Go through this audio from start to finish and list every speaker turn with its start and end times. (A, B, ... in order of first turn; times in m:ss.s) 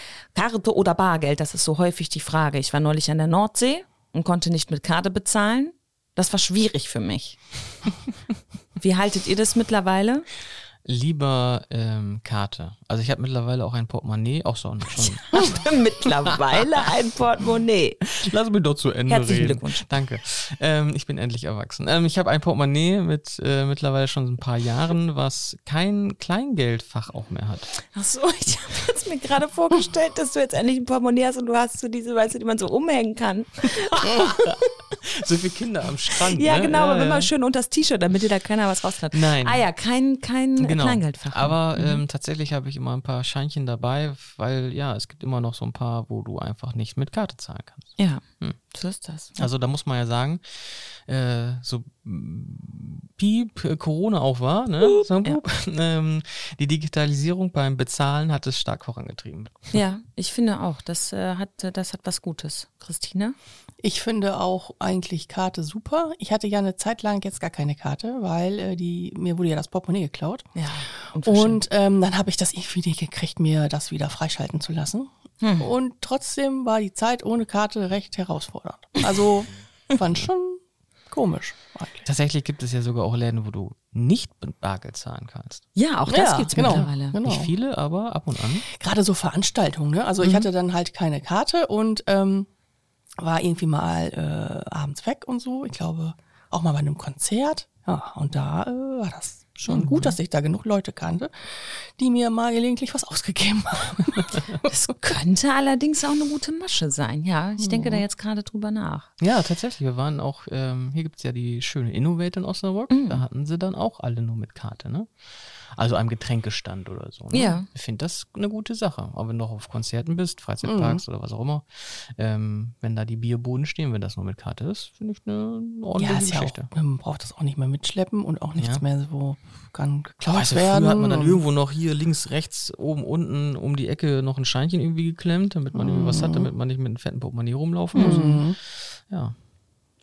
0:00.3-0:07.4 A
0:08.8-0:10.3 A
0:10.8-0:15.6 B
0:15.2-0:18.0 A
0:18.2-0:27.7 B
0:19.1-0:19.9 A
0:27.9-0:34.8 A
0:34.1-0:37.3 B
0:36.3-0:42.0 A
0:39.1-0:39.7 B
0:40.6-0:48.6 B
0:48.0-0:49.5 A
0:49.4-0:59.8 B
0:55.0-0:55.4 A
0:59.7-1:03.4 A
1:03.8-1:10.6 C
1:10.6-1:11.6 A
1:11.2-1:22.1 C
1:15.4-1:15.7 A
1:22.0-1:25.6 B
1:25.8-1:27.2 A
1:26.1-1:27.5 C
1:26.5-1:28.6 B
1:28.7-1:32.5 C
1:33.2-1:44.3 C
1:39.7-1:40.2 B
1:44.7-1:49.1 A
1:47.6-1:48.0 C
1:49.2-2:06.7 B
1:52.9-1:53.2 A
1:57.3-1:57.7 A
2:00.6-2:01.0 C
2:06.0-2:11.4 C
2:08.6-2:08.8 B
2:10.3-2:19.4 B
2:15.7-2:16.5 C
2:17.9-2:18.4 A
2:18.0-2:18.6 C